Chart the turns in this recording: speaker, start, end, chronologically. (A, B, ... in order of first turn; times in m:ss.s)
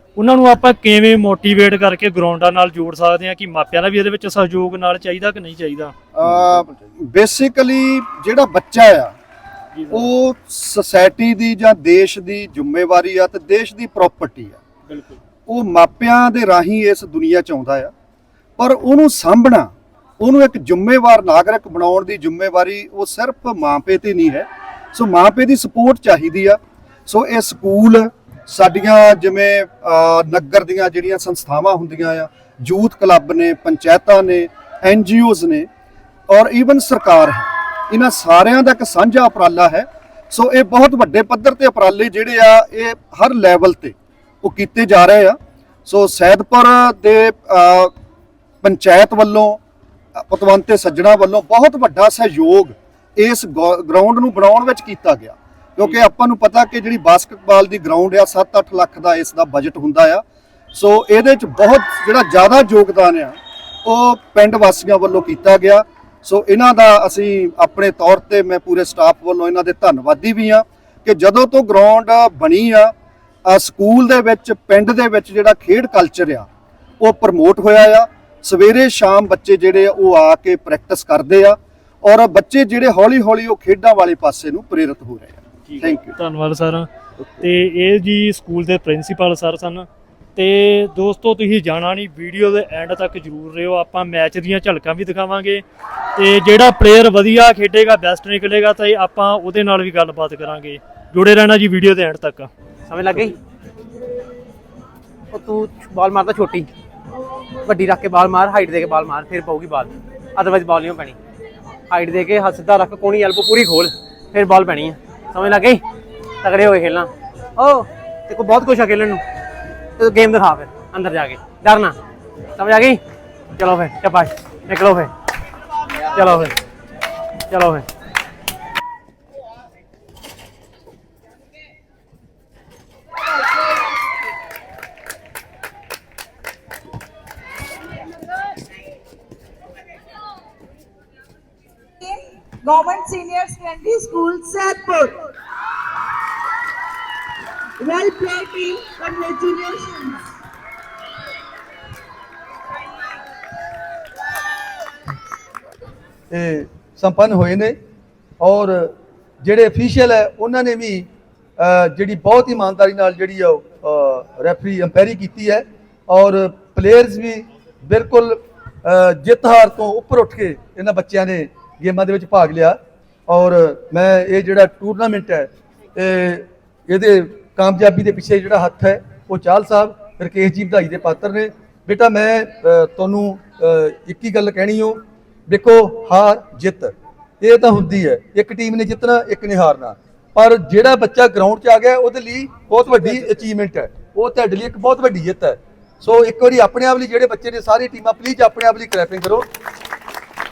0:00.2-0:05.9 A
0:06.2-0:09.2 B
0:09.8-0:10.1 A
0:09.9-0:14.6 B
0:14.9-0:15.2 A
0:15.5-0:17.9 B
0:18.6-0:35.7 B
0:36.3-0:47.9 B
0:48.6-0:49.6 B
0:50.2-1:12.9 B
1:13.4-1:16.5 B
1:17.0-1:26.1 B
1:25.7-1:26.9 A
1:27.4-1:35.6 A
1:36.2-1:42.5 A
1:42.9-1:43.4 C
1:45.3-1:46.7 C
1:47.6-1:51.2 C
1:51.9-1:55.8 C
1:56.4-1:59.2 C
2:00.0-2:02.0 C
2:02.6-2:03.0 C
2:03.6-2:05.1 C
2:06.1-2:06.6 C
2:07.5-2:07.9 C
2:22.0-2:25.2 D
2:27.8-2:30.2 D
2:36.3-2:37.8 E
2:38.4-2:41.1 E
2:41.6-3:19.5 E